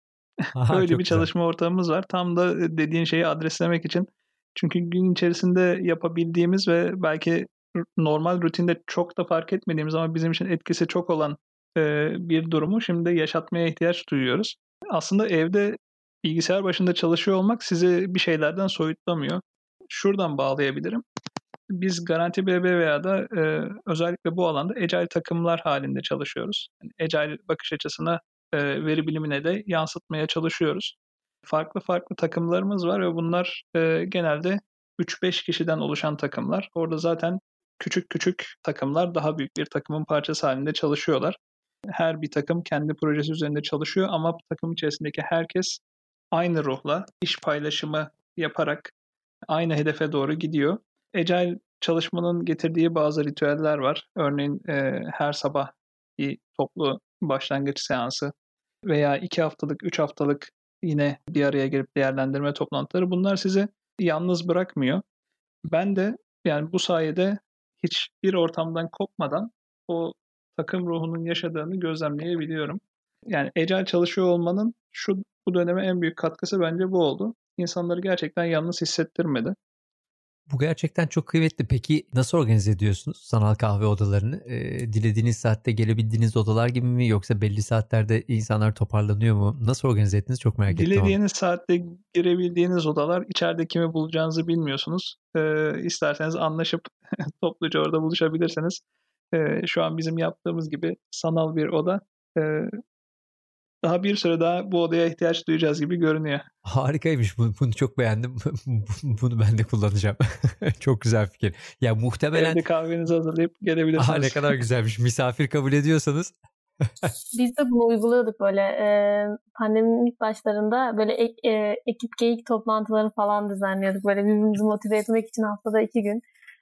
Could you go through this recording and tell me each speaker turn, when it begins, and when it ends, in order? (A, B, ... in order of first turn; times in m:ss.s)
0:00.5-0:01.3 A
0:00.7-0:21.0 B
0:21.7-0:30.9 B
0:31.4-0:41.4 B
0:41.9-0:45.8 B
0:46.3-0:48.9 B
0:49.5-0:58.3 B
0:58.8-1:05.0 B
1:05.7-1:19.5 B
1:20.5-1:31.2 A
1:30.7-1:38.8 B
1:39.3-1:42.7 B
1:43.8-1:46.4 B
1:46.6-1:52.6 A
1:52.3-1:54.4 B
1:54.0-1:56.3 A
1:57.3-2:06.2 C